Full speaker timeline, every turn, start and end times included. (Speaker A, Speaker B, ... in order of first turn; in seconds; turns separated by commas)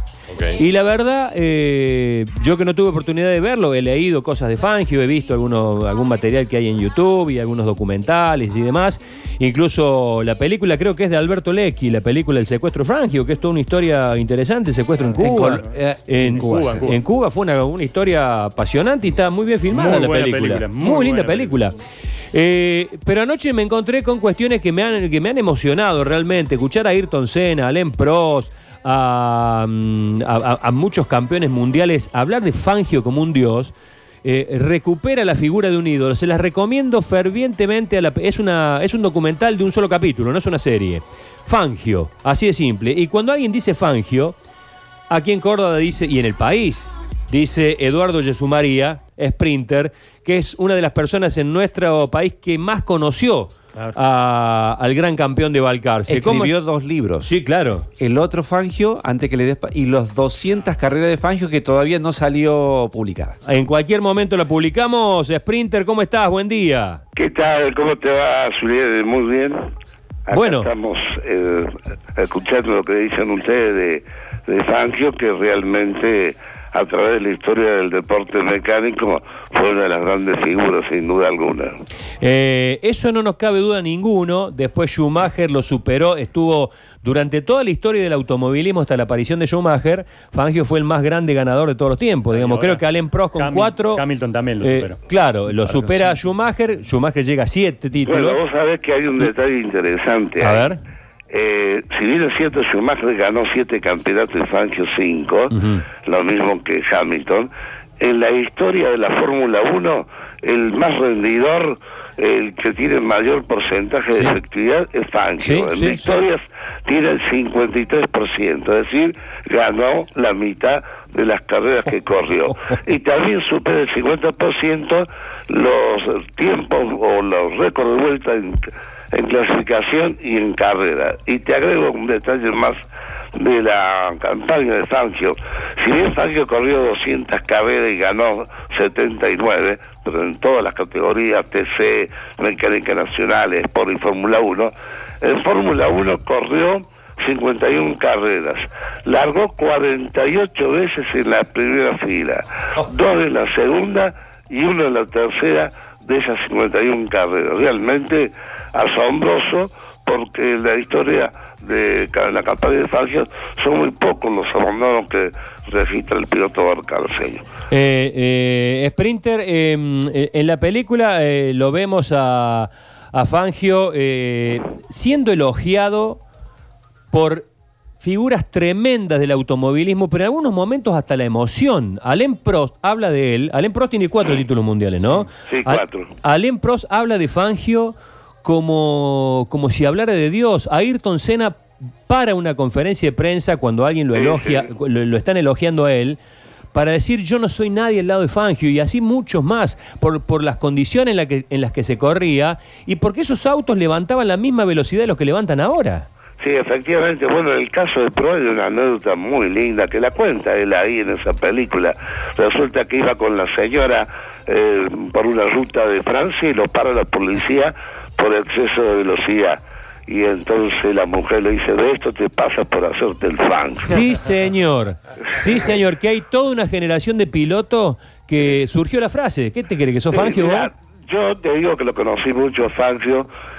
Speaker A: 0.4-21.7, Speaker B: 15.2-16.9, Speaker C: 16.2-17.0, Speaker C: 19.7-21.6, Speaker A: 22.3-44.4, Speaker A: 45.1-56.5, Speaker B: 56.1-57.4, Speaker A: 57.2-57.9, Speaker B: 58.0-63.4, Speaker A: 63.5-67.0, Speaker D: 67.2-69.6, Speaker D: 70.3-81.8, Speaker A: 70.3-70.7, Speaker A: 82.2-94.0, Speaker C: 92.3-92.8, Speaker C: 93.3-95.0, Speaker A: 94.6-98.4, Speaker C: 95.6-96.1, Speaker D: 98.1-100.7, Speaker A: 100.4-100.8, Speaker D: 101.3-132.8, Speaker A: 105.5-105.8, Speaker A: 114.1-114.4, Speaker A: 115.4-116.2, Speaker D: 133.3-167.4, Speaker A: 167.7-176.2, Speaker A: 177.1-177.5, Speaker A: 178.0-196.2, Speaker D: 185.5-186.1, Speaker D: 194.2-194.7, Speaker A: 196.7-206.1, Speaker D: 206.4-224.0, Speaker A: 223.8-230.7, Speaker D: 230.1-233.3